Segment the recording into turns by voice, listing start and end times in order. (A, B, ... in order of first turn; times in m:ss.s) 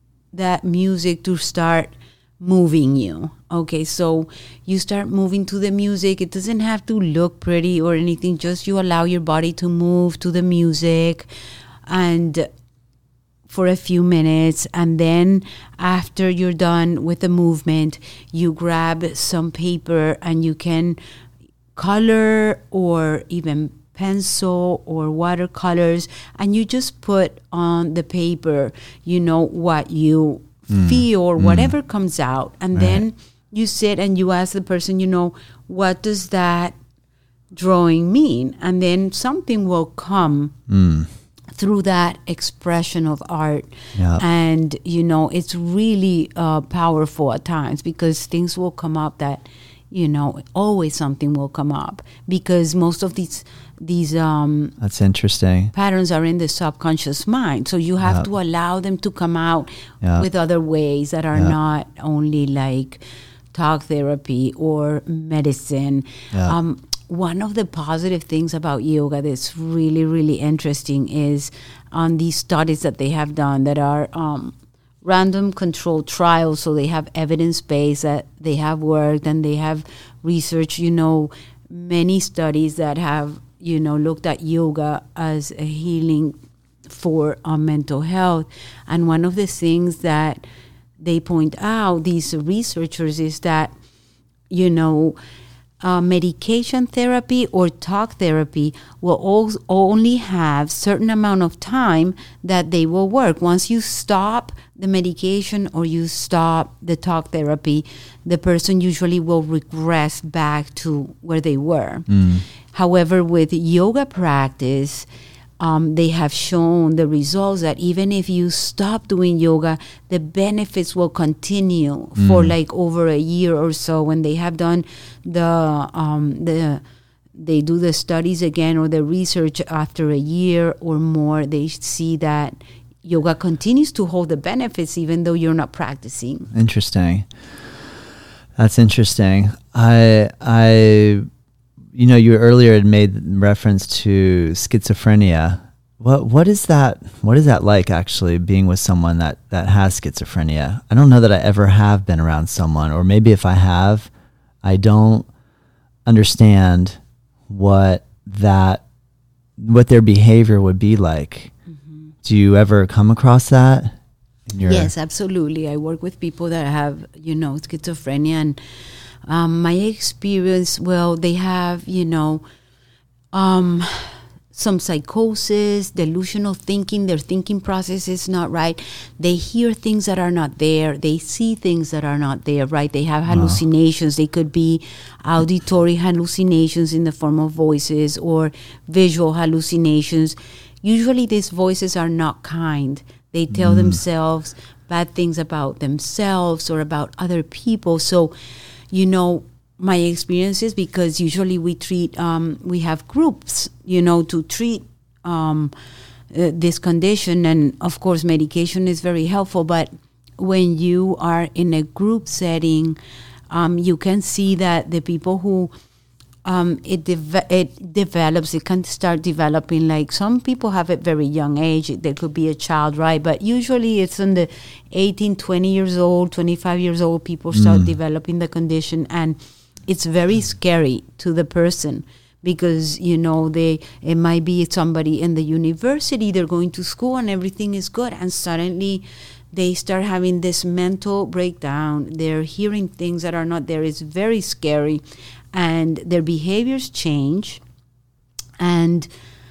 0:00.3-0:11.3 A
0:11.9-0:12.5 A
0:13.5-0:21.0 A
0:21.7-0:36.7 A
0:30.7-0:31.7 B
0:32.7-0:33.0 B
0:37.5-0:40.6 A
0:40.7-0:41.1 B
0:41.5-0:54.8 A
0:44.0-0:44.2 B
0:54.8-0:55.7 B
0:55.7-1:26.4 A
1:26.9-1:30.4 A
1:31.0-1:33.7 A
1:34.5-1:35.2 A
1:35.8-1:55.0 A
1:52.1-1:52.4 B
1:55.6-2:06.8 A
2:02.2-2:02.5 B
2:07.3-2:16.5 A
2:16.5-2:17.3 B
2:18.6-2:21.2 B
2:21.9-2:34.1 B
2:34.6-2:35.3 B
2:36.0-2:38.8 B
2:39.6-2:41.5 B
2:42.2-2:43.9 B
2:44.5-2:44.9 B
2:44.6-2:48.6 A
2:49.2-2:52.4 A
2:53.3-3:18.3 A
3:03.3-3:03.6 B
3:13.5-3:14.0 B
3:18.9-3:25.7 A
3:26.3-3:33.0 A
3:33.5-3:35.7 A
3:36.4-4:05.0 A
3:47.5-3:47.9 B
4:05.5-4:07.6 A
4:08.6-4:09.1 A